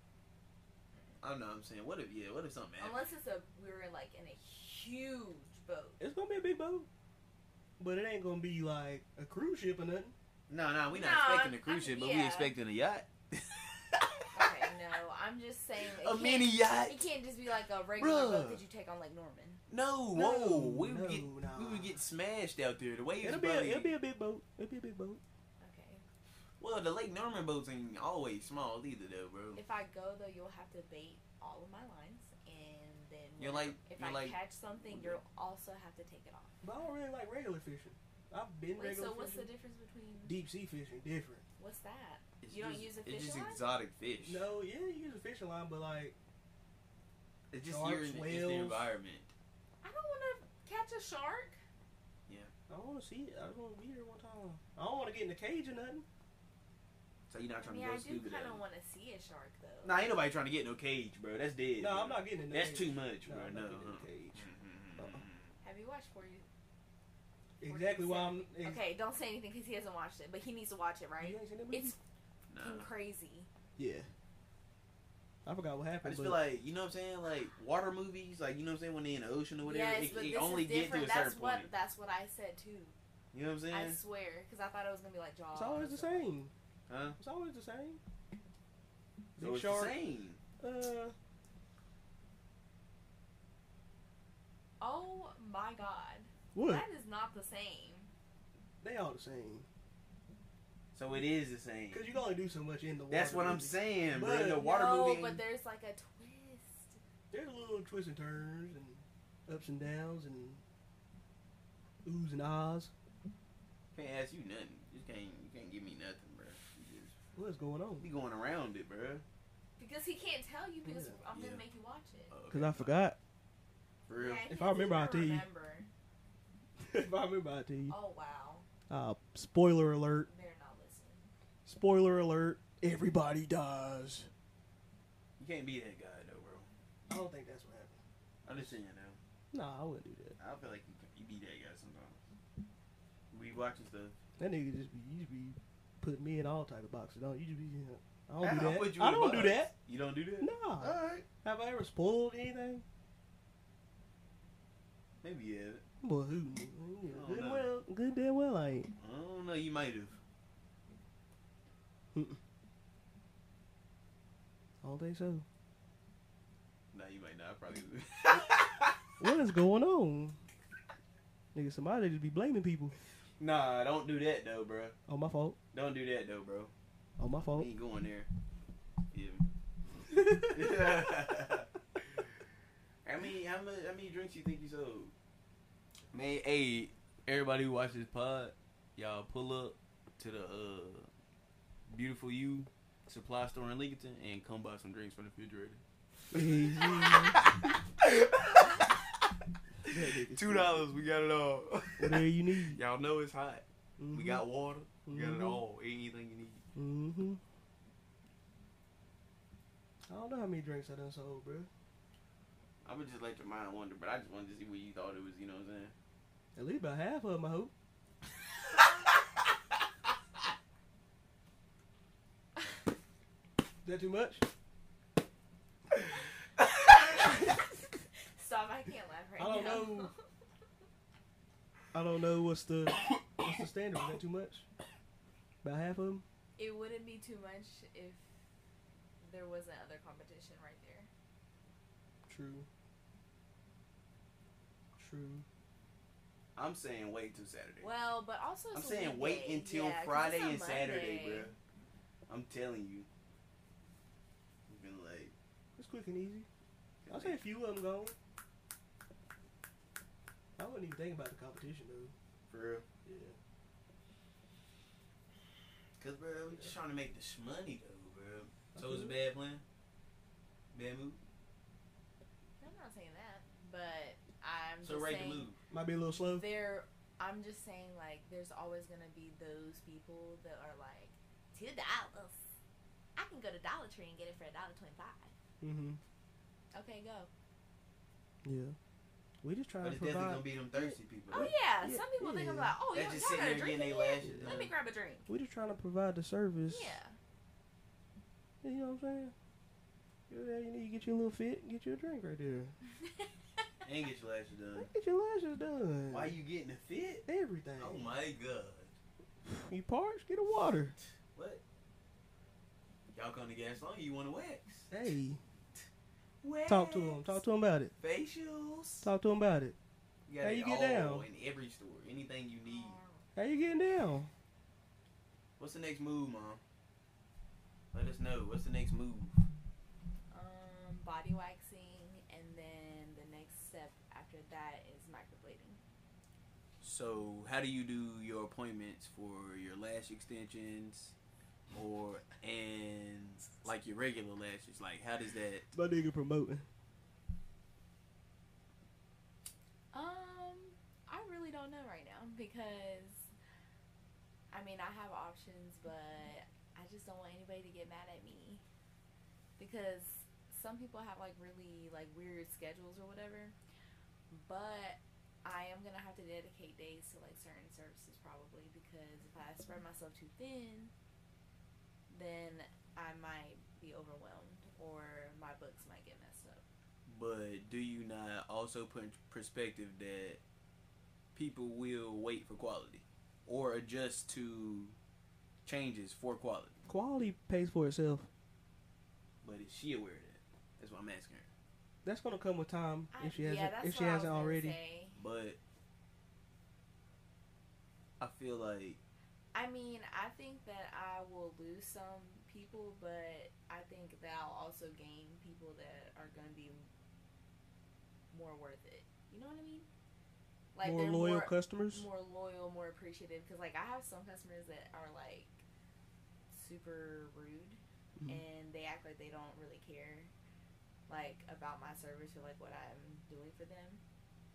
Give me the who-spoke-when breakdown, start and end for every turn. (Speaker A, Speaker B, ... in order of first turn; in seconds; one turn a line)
Speaker A: 1.2-3.0
Speaker B: 2.8-6.0
Speaker C: 6.0-6.9
Speaker C: 7.8-10.1
Speaker A: 10.5-14.7
Speaker B: 10.9-12.5
Speaker B: 14.3-19.6
Speaker A: 15.8-17.0
Speaker A: 18.0-18.6
Speaker A: 19.7-23.9
Speaker C: 20.1-21.9
Speaker C: 23.2-25.2
Speaker B: 25.6-26.0
Speaker A: 26.6-29.6
Speaker B: 29.6-36.6
Speaker A: 33.4-35.2
Speaker C: 36.6-39.5
Speaker B: 38.8-40.4
Speaker C: 40.2-41.4
Speaker B: 41.6-43.7
Speaker A: 42.4-44.5
Speaker C: 44.2-46.1
Speaker A: 47.5-49.3
Speaker C: 47.6-48.9
Speaker B: 49.8-51.6
Speaker C: 52.7-56.0
Speaker A: 57.3-58.6
Speaker B: 57.6-60.1
Speaker A: 59.8-65.5
Speaker C: 61.8-65.2
Speaker B: 65.6-66.5
Speaker C: 67.6-68.8
Speaker B: 67.6-72.0
Speaker C: 71.2-72.0
Speaker A: 72.5-72.9
Speaker B: 72.5-73.5
Speaker C: 73.8-74.1
Speaker C: 75.5-76.4
Speaker A: 76.0-81.7
Speaker B: 79.6-83.0
Speaker A: 83.3-84.0
Speaker B: 83.7-86.3
Speaker C: 85.5-86.5
Speaker A: 86.9-87.2
Speaker C: 87.2-88.0
Speaker C: 89.4-90.0
Speaker A: 89.4-90.4
Speaker C: 90.6-91.1
Speaker B: 94.8-98.1
Speaker C: 96.5-96.8
Speaker C: 98.8-99.7
Speaker A: 100.9-102.1
Speaker C: 101.9-104.6
Speaker A: 103.1-105.4
Speaker B: 104.5-107.0
Speaker C: 107.3-110.6
Speaker C: 112.0-112.9
Speaker A: 113.9-117.2
Speaker C: 117.4-118.1
Speaker A: 118.0-119.2
Speaker B: 119.8-122.3
Speaker C: 120.8-121.2
Speaker A: 121.3-121.6
Speaker A: 122.3-123.0
Speaker C: 122.5-123.2
Speaker A: 124.1-124.5
Speaker B: 124.1-125.9
Speaker C: 124.5-125.5
Speaker C: 126.8-128.0
Speaker B: 127.9-128.7
Speaker C: 128.9-130.3
Speaker B: 130.3-131.2
Speaker C: 131.7-134.3
Speaker A: 135.4-136.7
Speaker C: 137.1-138.0
Speaker A: 138.4-139.2
Speaker C: 139.5-140.4
Speaker A: 140.4-142.2
Speaker A: 143.3-144.2
Speaker C: 144.4-149.7
Speaker A: 148.4-151.2
Speaker C: 150.4-152.8
Speaker A: 155.2-155.8
Speaker C: 156.0-158.9
Speaker A: 157.1-157.7
Speaker A: 159.0-160.2
Speaker C: 164.8-165.4
Speaker A: 166.9-169.0
Speaker C: 169.2-170.4
Speaker C: 171.5-173.0
Speaker A: 173.4-174.9
Speaker C: 175.1-175.6
Speaker A: 175.7-176.7
Speaker C: 177.2-177.7
Speaker A: 177.5-178.3
Speaker A: 179.1-179.4
Speaker C: 180.2-180.5
Speaker A: 180.4-182.2
Speaker A: 183.1-185.1
Speaker A: 186.1-191.1
Speaker A: 191.9-195.8
Speaker C: 196.3-197.4
Speaker A: 196.3-199.3
Speaker C: 199.8-200.9
Speaker A: 199.9-206.6
Speaker C: 202.0-202.8
Speaker C: 204.0-204.4
Speaker C: 205.1-205.6
Speaker C: 206.8-207.4
Speaker C: 210.1-211.7
Speaker A: 212.8-215.9
Speaker C: 216.6-217.7
Speaker C: 223.8-224.5
Speaker B: 226.9-230.2
Speaker C: 229.4-230.1
Speaker C: 231.9-234.7
Speaker C: 235.6-236.2
Speaker B: 236.6-238.3
Speaker B: 239.2-241.1
Speaker C: 242.3-242.7
Speaker C: 245.0-245.4
Speaker A: 246.6-247.9
Speaker B: 247.8-251.5
Speaker A: 248.7-251.6
Speaker A: 252.3-253.1
Speaker A: 254.7-255.3
Speaker C: 255.8-256.5
Speaker A: 257.0-257.4
Speaker C: 257.1-258.2
Speaker C: 260.6-262.1
Speaker A: 262.5-262.9
Speaker C: 263.1-263.4
Speaker A: 266.0-269.6
Speaker C: 268.8-269.1
Speaker A: 270.7-271.2
Speaker B: 272.6-275.5
Speaker A: 274.8-275.6
Speaker C: 275.7-276.4
Speaker B: 276.2-282.5
Speaker B: 283.2-285.3
Speaker C: 285.6-286.0
Speaker B: 286.7-287.3
Speaker C: 288.4-288.8
Speaker C: 289.4-292.8
Speaker A: 289.8-291.5
Speaker B: 291.3-295.3
Speaker A: 292.9-294.7
Speaker C: 294.2-294.5
Speaker C: 295.3-297.0
Speaker B: 296.7-297.2
Speaker C: 298.6-299.3
Speaker C: 300.3-302.8
Speaker A: 303.9-304.9
Speaker C: 304.8-306.4
Speaker A: 306.1-307.2
Speaker C: 307.3-308.1
Speaker A: 307.8-308.9
Speaker C: 309.4-311.0
Speaker A: 311.3-311.6
Speaker A: 313.1-314.9
Speaker C: 314.9-315.4
Speaker A: 316.4-317.4
Speaker C: 316.7-317.9
Speaker A: 318.0-319.1
Speaker C: 319.0-319.8
Speaker A: 320.3-323.0
Speaker C: 320.4-321.2
Speaker B: 322.7-323.3
Speaker C: 323.4-324.3
Speaker A: 325.6-326.6
Speaker A: 327.9-329.4
Speaker B: 330.3-335.8
Speaker A: 336.8-341.1
Speaker A: 341.7-345.7
Speaker C: 345.7-346.7
Speaker B: 349.9-353.3
Speaker B: 354.5-358.6
Speaker B: 359.6-363.6
Speaker B: 364.3-370.9
Speaker B: 372.1-376.6
Speaker A: 377.1-380.4
Speaker A: 381.4-385.0
Speaker A: 385.6-386.8
Speaker C: 386.9-388.3
Speaker A: 389.4-391.5
Speaker C: 392.1-394.8
Speaker B: 393.1-395.2
Speaker A: 395.2-395.6
Speaker A: 398.2-399.0
Speaker B: 399.5-406.9
Speaker B: 408.3-409.9
Speaker B: 410.8-415.6
Speaker C: 410.8-412.1
Speaker B: 416.5-420.3
Speaker C: 418.2-418.4
Speaker B: 421.1-424.0